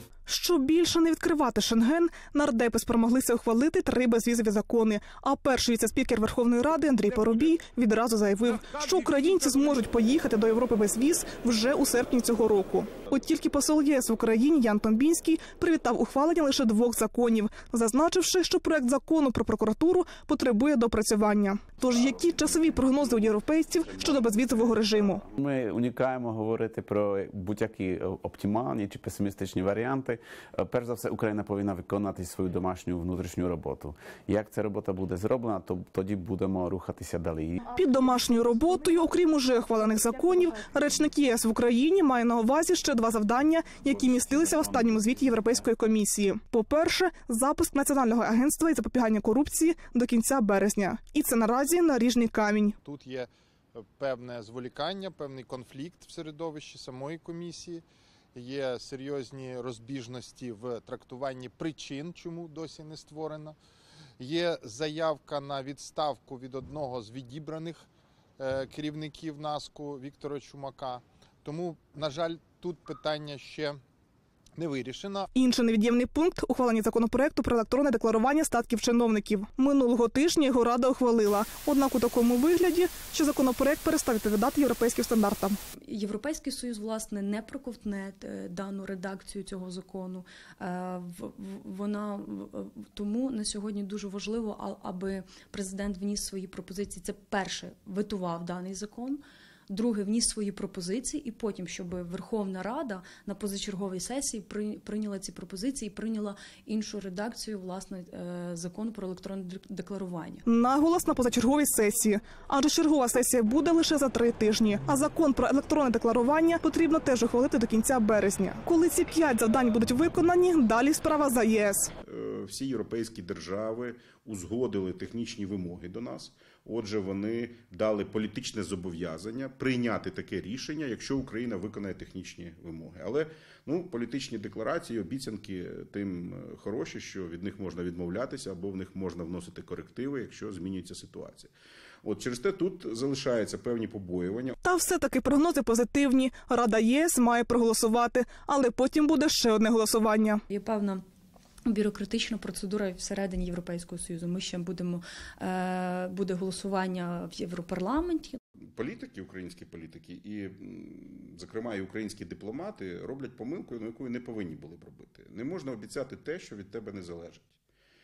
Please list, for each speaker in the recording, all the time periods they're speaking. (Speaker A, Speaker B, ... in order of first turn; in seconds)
Speaker A: 0.3-25.2, 37.7-52.8, 75.3-85.6, 110.5-121.9, 144.6-150.4
Speaker B: 22.3-23.1, 23.8-37.7, 43.8-45.6
Speaker C: 52.8-63.6, 64.2-67.9, 68.4-73.8, 74.5-75.3
Speaker D: 85.9-110.5, 150.5-151.0, 151.7-158.4
Speaker E: 122.0-141.5, 142.0-144.5, 158.8-167.6